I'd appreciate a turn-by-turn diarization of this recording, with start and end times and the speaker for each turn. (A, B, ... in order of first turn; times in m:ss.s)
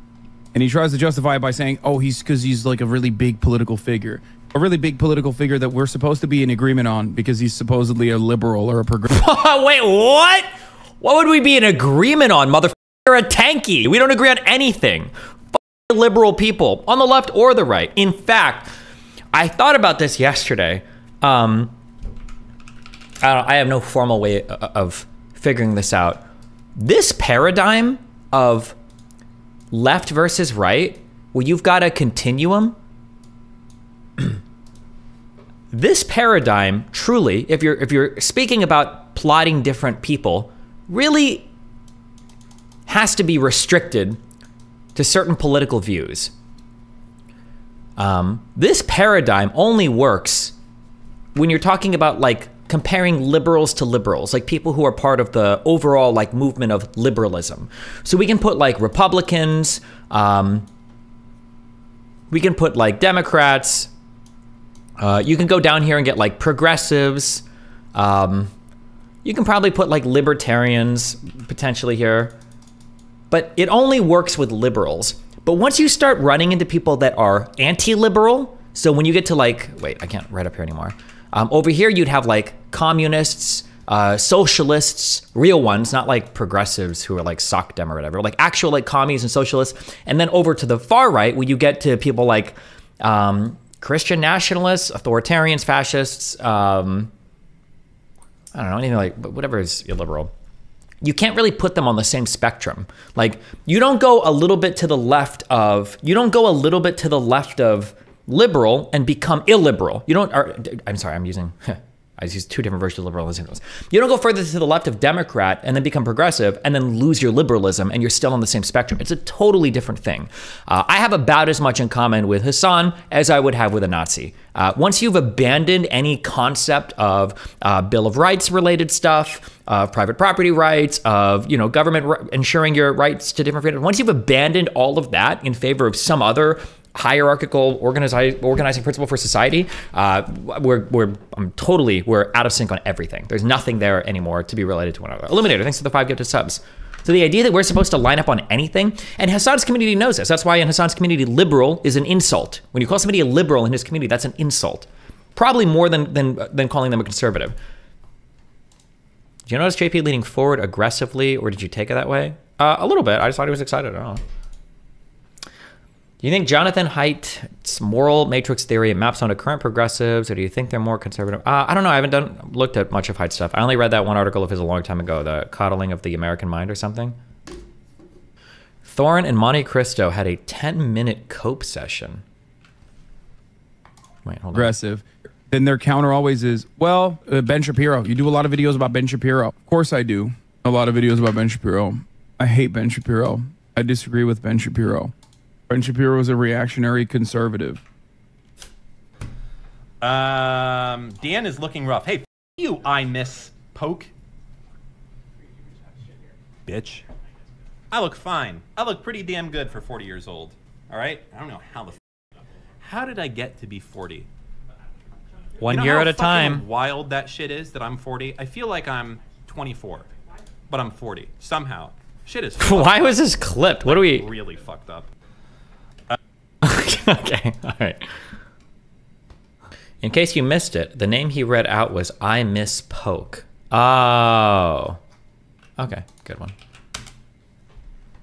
0:00.5-0:09.2 A
0:09.1-0:18.7 B
0:19.3-0:21.8 B
0:23.2-0:26.2 B
0:26.8-0:28.8 B
0:29.7-0:32.8 B
0:35.7-0:41.5 B
0:42.9-0:44.2 B
0:44.9-0:46.3 B
0:48.0-0:50.5 B
0:51.3-1:00.7 B
1:02.3-1:03.9 B
1:05.0-1:08.5 B
1:09.2-1:12.4 B
1:13.3-1:37.1 B
1:38.5-1:40.3 B
1:41.0-2:37.6 B
2:39.4-2:44.2 B
2:46.2-2:57.2 B
2:58.8-3:02.2 B
3:04.2-3:04.7 B
3:04.5-3:15.1 A
3:15.7-3:17.8 A
3:20.0-3:24.1 C
3:26.6-3:27.0 C
3:27.9-3:32.0 C
3:32.8-3:34.3 C
3:35.6-3:36.7 B
3:35.6-3:40.1 C
3:40.7-3:43.2 C
3:42.6-3:44.3 B
3:43.8-3:45.1 C
3:46.6-3:48.2 B
3:50.0-3:55.0 B
3:55.8-3:56.5 B